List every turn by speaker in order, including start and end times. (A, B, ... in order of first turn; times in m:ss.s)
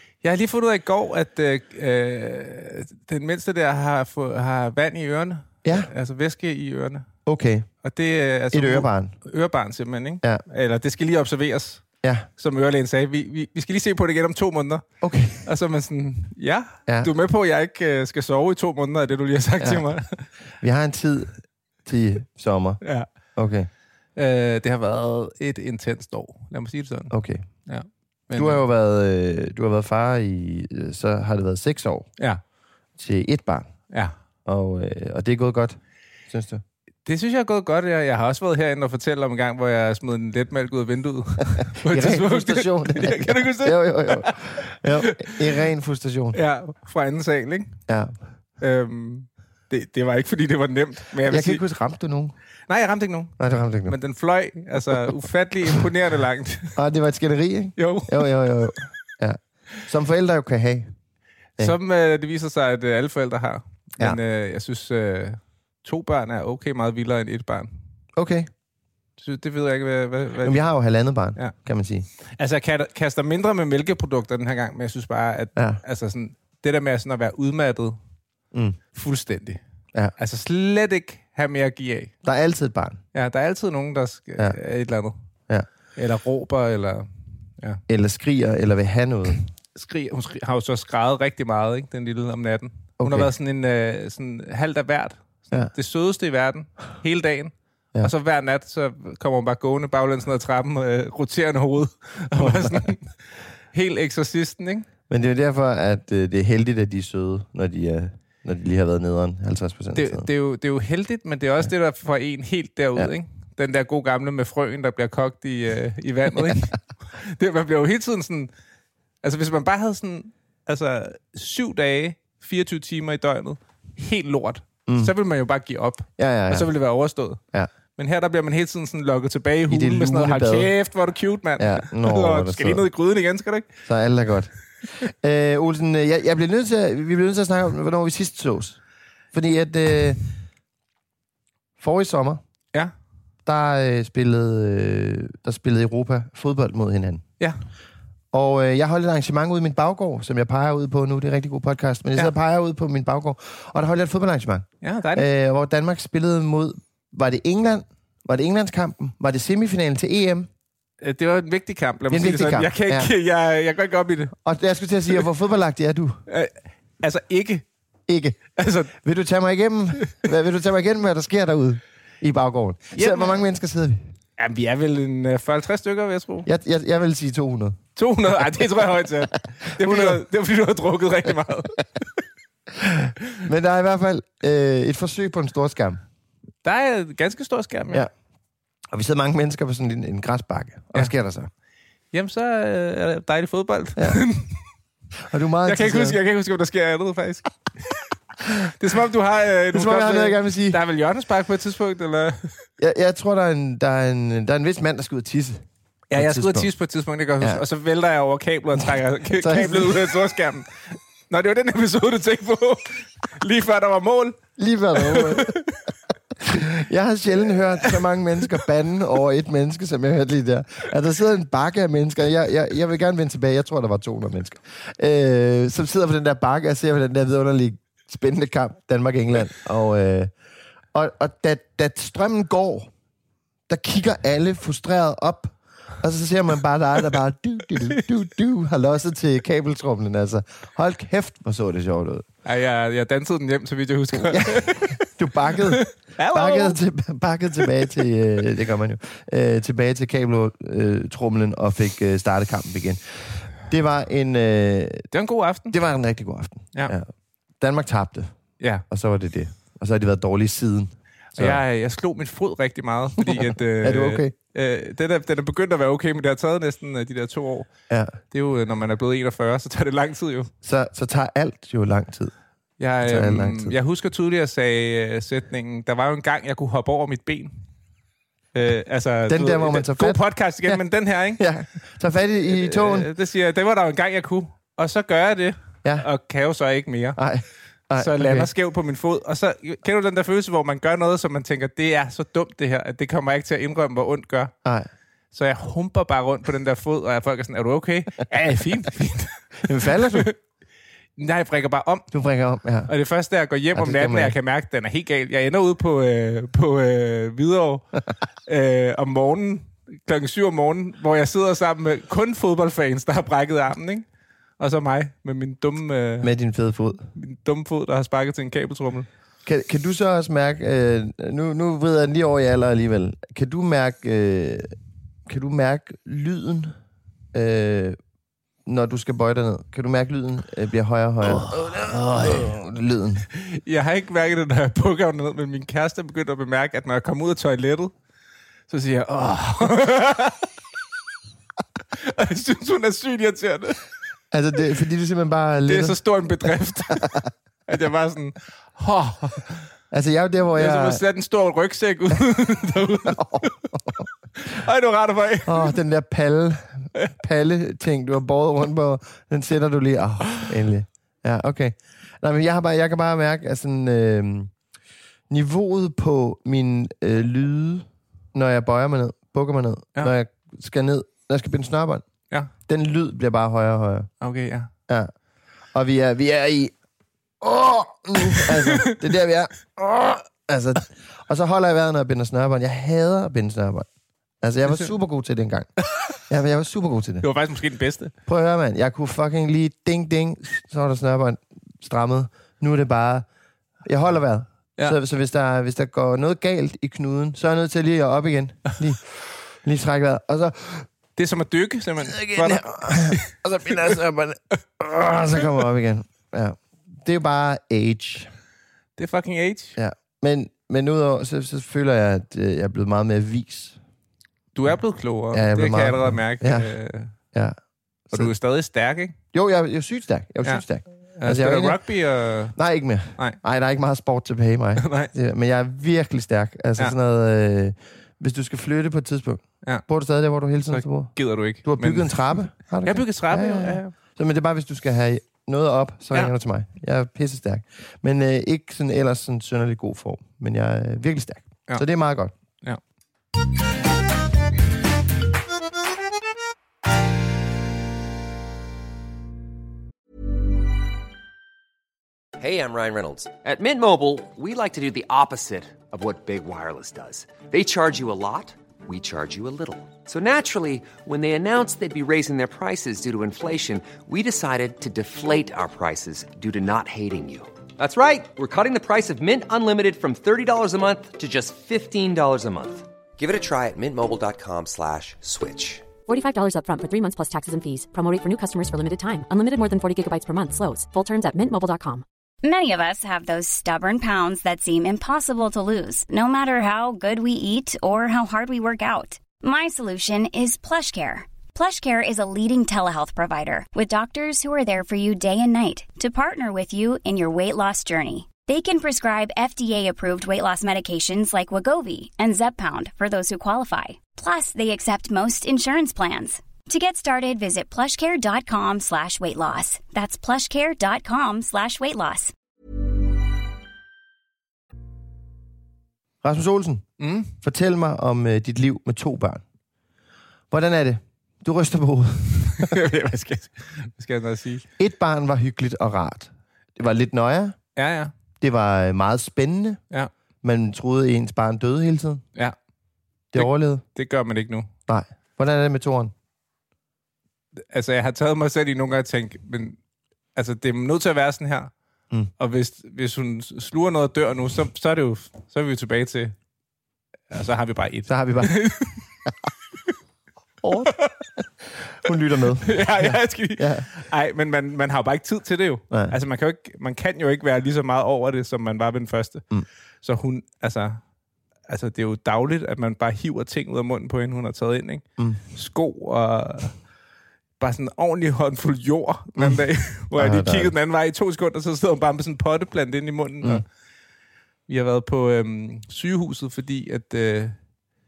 0:00.2-0:07.1 A
0:05.6-0:05.9 B
0:07.3-0:07.7 B
0:07.8-0:11.8 A
0:08.5-0:09.1 B
0:12.0-0:12.3 B
0:12.4-0:14.8 A
0:15.0-0:15.4 B
0:15.4-0:20.3 A
0:20.6-0:22.8 B
0:22.8-0:23.1 A
0:23.4-0:23.7 B
0:24.2-0:27.1 A
0:27.1-0:27.4 B
0:27.7-0:28.6 A
0:28.3-0:32.1 B
0:33.0-0:33.7 B
0:34.5-0:36.6 B
0:37.1-0:45.4 A
0:41.6-0:46.4 B
0:46.3-0:47.8 A
0:47.9-0:48.1 B
0:48.6-0:51.6 A
0:51.2-0:52.4 B
0:52.7-0:56.8 A
0:53.4-0:54.0 B
0:56.8-1:00.9 B
0:57.8-0:58.3 A
1:01.6-1:07.7 A
1:08.2-1:08.5 B
1:09.2-1:10.6 A
1:10.4-1:12.1 B
1:12.2-1:18.0 A
1:15.6-1:15.8 B
1:18.5-1:18.8 B
1:18.9-1:19.6 A
1:20.2-1:22.1 A
1:22.2-1:23.0 B
1:23.1-1:25.2 A
1:26.0-1:27.1 A
1:27.9-1:29.4 B
1:29.8-1:43.2 A
1:33.0-1:33.3 B
1:42.4-1:42.9 B
1:43.7-1:44.9 A
1:45.1-1:50.3 B
1:50.0-1:58.5 A
1:59.2-2:07.4 A
2:04.9-2:05.1 B
2:06.2-2:06.7 B
2:08.0-2:13.7 A
2:09.7-2:10.7 B
2:11.6-2:12.8 B
2:13.9-2:14.5 B
2:15.0-2:18.8 B
2:19.3-2:20.2 B
2:21.8-2:22.4 B
2:23.4-2:27.2 B
2:28.3-2:40.5 B
2:34.8-2:35.3 A
2:41.0-2:44.4 A
2:42.1-2:43.1 B
2:44.4-2:46.2 B
2:46.3-2:47.7 A
2:48.1-2:48.4 B
2:48.6-2:48.9 A
2:49.0-2:54.0 B
2:53.0-2:53.4 A
2:54.4-2:56.5 A
2:56.5-2:57.8 B
2:58.0-3:01.8 A
2:59.8-3:00.2 B
3:02.8-3:06.0 B
3:06.6-3:08.1 A
3:08.9-3:11.5 B
3:12.1-3:14.6 A
3:15.3-3:16.2 B
3:15.6-3:18.0 A
3:18.8-3:22.6 A
3:19.7-3:20.8 B
3:22.8-3:26.7 B
3:26.1-3:34.4 A
3:29.4-3:30.1 B
3:34.6-3:35.5 B
3:35.0-3:35.8 A
3:36.4-3:50.3 B
3:37.8-3:38.6 A
3:50.9-3:52.9 B
3:53.7-4:02.2 B
4:02.4-4:05.0 A
4:04.2-4:13.0 B
4:05.6-4:06.8 A
4:13.7-4:15.1 B
4:15.1-4:15.8 A
4:15.7-4:17.1 B
4:17.6-4:18.3 B
4:18.9-4:21.6 B
4:21.3-4:27.7 A
4:23.2-4:24.3 B
4:27.9-4:28.2 B
4:28.3-4:30.5 A
4:30.6-4:32.3 B
4:32.8-4:37.5 A
4:33.0-4:33.7 B
4:38.6-4:41.4 A
4:39.3-4:40.8 B
4:41.4-4:43.1 B
4:42.5-4:47.2 A
4:47.2-4:48.5 B
4:48.0-4:54.5 A
4:55.3-5:00.3 A
4:59.6-5:00.3 B
5:01.2-5:02.1 A
5:02.1-5:02.9 B
5:02.9-5:07.9 A
5:03.8-5:04.4 B
5:08.5-5:14.1 A
5:14.6-5:16.3 A
5:16.2-5:17.1 B
5:17.2-5:19.1 A
5:19.4-5:24.8 B
5:25.3-5:26.8 B
5:27.3-5:28.0 B
5:28.7-5:33.3 B
5:31.2-5:32.5 A
5:33.3-5:37.9 A
5:38.7-5:40.5 A
5:41.9-5:43.8 A
5:44.3-5:46.0 B
5:45.7-5:47.1 A
5:46.9-5:47.3 B
5:47.7-5:49.6 A
5:49.9-5:51.0 B
5:50.6-5:53.6 A
5:53.1-5:54.0 B
5:54.4-5:55.8 A
5:55.5-6:04.5 B
6:05.3-6:12.0 B
6:12.7-6:14.1 B
6:14.2-6:14.7 A
6:15.7-6:16.7 B
6:17.4-6:23.9 B
6:18.3-6:19.0 A
6:24.4-6:25.7 B
6:26.2-6:27.2 B
6:27.2-6:28.1 A
6:28.3-6:33.3 B
6:33.8-6:39.0 B
6:39.6-6:40.9 B
6:41.2-6:43.9 A
6:42.0-6:48.3 B
6:49.0-6:49.8 A
6:49.8-6:53.8 B
6:54.5-6:57.1 A
6:55.3-6:56.7 B
6:58.1-6:59.2 A
6:59.3-7:01.8 B
7:01.2-7:02.6 A
7:02.6-7:22.3 B
7:04.8-7:05.1 A
7:10.7-7:12.3 A
7:12.8-7:13.9 A
7:32.4-7:55.9 C
7:56.1-8:02.0 D
8:02.4-8:32.3 E
8:36.2-8:39.4 B
8:37.0-8:37.3 A
8:40.5-8:42.8 B
8:42.6-8:44.6 A
8:44.8-8:47.6 B
8:47.8-8:48.1 A
8:48.4-8:49.8 B
8:50.4-8:52.2 B
8:53.3-8:53.8 B
8:53.4-8:54.7 A
8:54.9-8:56.1 B
8:57.6-8:59.8 A
9:00.4-9:01.7 A
9:02.4-9:06.3 A
9:07.3-9:09.1 A
9:08.1-9:08.6 B
9:10.6-9:13.9 B
9:10.8-9:11.2 A
9:12.6-9:19.4 A
9:20.0-9:21.0 A
9:21.7-9:26.8 A
9:27.6-9:33.6 A
9:30.2-9:30.7 B
9:34.7-9:37.6 A